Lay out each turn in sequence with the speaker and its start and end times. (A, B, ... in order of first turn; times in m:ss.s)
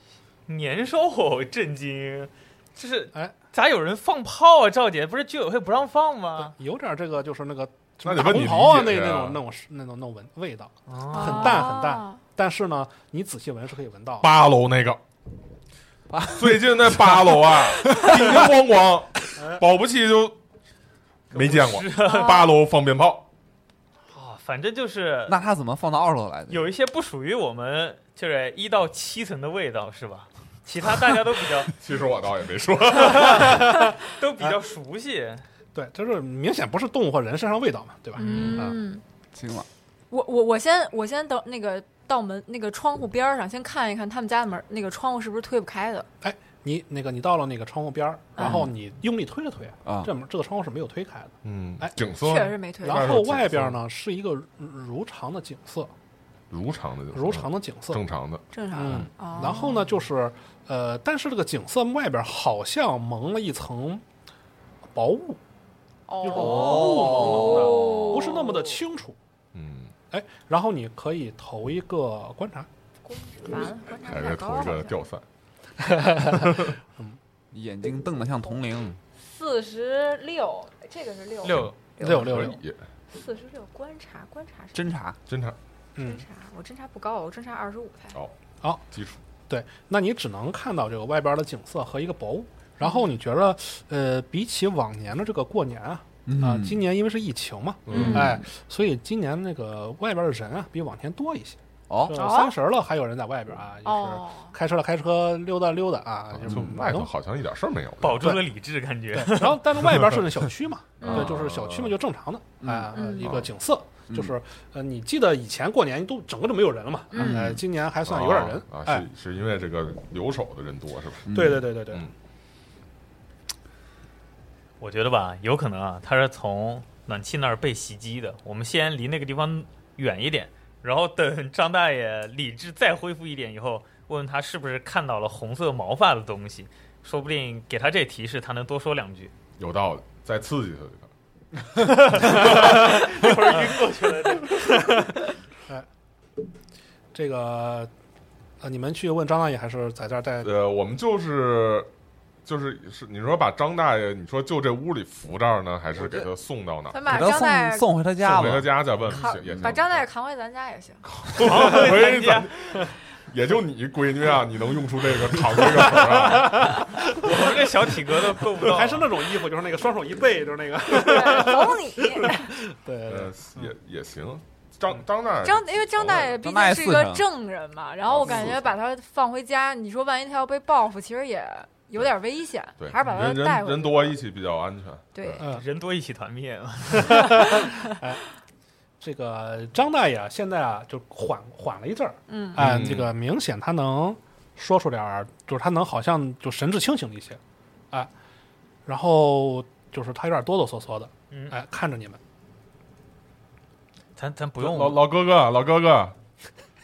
0:00.5-0:06.6 A
0:06.4-0:14.3 B
0:08.0-0:09.4 C
0:10.9-0:11.7 A
0:11.1-0:12.2 D
0:14.2-0:15.0 C
0:16.1-0:18.5 E
0:16.3-0:20.4 C
0:19.4-0:19.6 B
0:21.3-0:22.4 A
0:21.3-0:23.3 C
0:22.0-0:22.5 D
0:24.1-0:25.4 A
0:25.3-0:26.7 E
0:26.5-0:31.8 A
0:31.8-0:33.6 C
0:33.0-0:35.4 A
0:33.2-0:34.6 B
0:35.8-0:38.8 B
0:38.2-0:39.0 D
0:38.3-0:38.6 C
0:39.3-0:39.7 E
0:40.1-0:46.1 D
0:46.2-0:52.0 B
0:48.4-0:48.7 D
0:49.8-0:50.1 E
0:51.4-0:53.8 C
0:52.2-0:53.2 D
0:52.8-0:55.9 B
0:56.5-0:58.4 C
0:57.1-0:58.0 B
0:58.5-0:59.9 D
0:58.7-1:04.0 B
1:04.9-1:05.4 B
1:06.1-1:08.8 D
1:06.2-1:09.2 B
1:06.3-1:08.0 E
1:09.5-1:09.9 C
1:10.1-1:12.7 B
1:13.0-1:15.0 D
1:14.0-1:15.2 C
1:15.8-1:17.2 B
1:17.5-1:19.0 E
1:19.2-1:22.6 D
1:21.4-1:21.8 A
1:21.6-1:22.8 C
1:22.0-1:22.6 B
1:23.1-1:24.8 D
1:24.7-1:25.2 E
1:25.3-1:25.6 C
1:26.0-1:26.2 B
1:26.0-1:28.2 D
1:28.8-1:29.2 C
1:29.5-1:47.1 B
1:32.8-1:33.1 D
1:36.3-1:36.8 E
1:37.9-1:38.2 C
1:37.9-1:38.4 D
1:41.9-1:42.2 E
1:42.1-1:42.5 D
1:43.8-1:44.5 D
1:46.3-1:48.2 C
1:48.0-1:50.0 A
1:48.2-1:48.5 B
1:49.1-1:59.1 B
1:51.0-1:51.3 D
1:51.0-1:51.9 C
1:52.6-1:52.9 E
1:52.9-1:53.4 D
1:54.1-1:54.3 E
1:57.1-1:57.4 D
1:57.2-1:57.6 E
1:58.0-2:01.3 C
2:01.3-2:01.7 E
2:01.3-2:02.1 B
2:04.8-2:19.3 A
2:19.6-2:21.1 C
2:21.8-2:24.9 A
2:22.2-2:23.0 C
2:22.3-2:22.9 B
2:24.6-2:25.9 B
2:27.1-2:27.9 B
2:28.6-2:30.5 B
2:30.4-2:31.9 C
2:32.4-2:37.0 C
2:36.0-2:36.3 E
2:36.9-2:38.0 D
2:37.1-2:38.8 E
2:38.2-2:40.0 C
2:39.1-2:41.0 D
2:39.4-2:39.8 E
2:41.1-2:46.8 C
2:41.3-2:42.8 A
2:45.9-2:47.5 B
2:47.0-2:49.1 A
2:48.6-2:53.7 B
2:50.9-2:52.5 D
2:53.1-2:56.4 C
2:55.4-3:04.2 D
2:56.4-2:57.3 E
2:58.1-2:58.8 C
3:02.8-3:05.4 C
3:05.2-3:05.4 D
3:05.4-3:07.5 A
3:06.9-3:08.2 B
3:09.0-3:17.4 B
3:12.3-3:12.8 D
3:12.6-3:13.1 C
3:18.9-3:22.2 B
3:24.2-3:25.0 A
3:24.6-3:26.2 C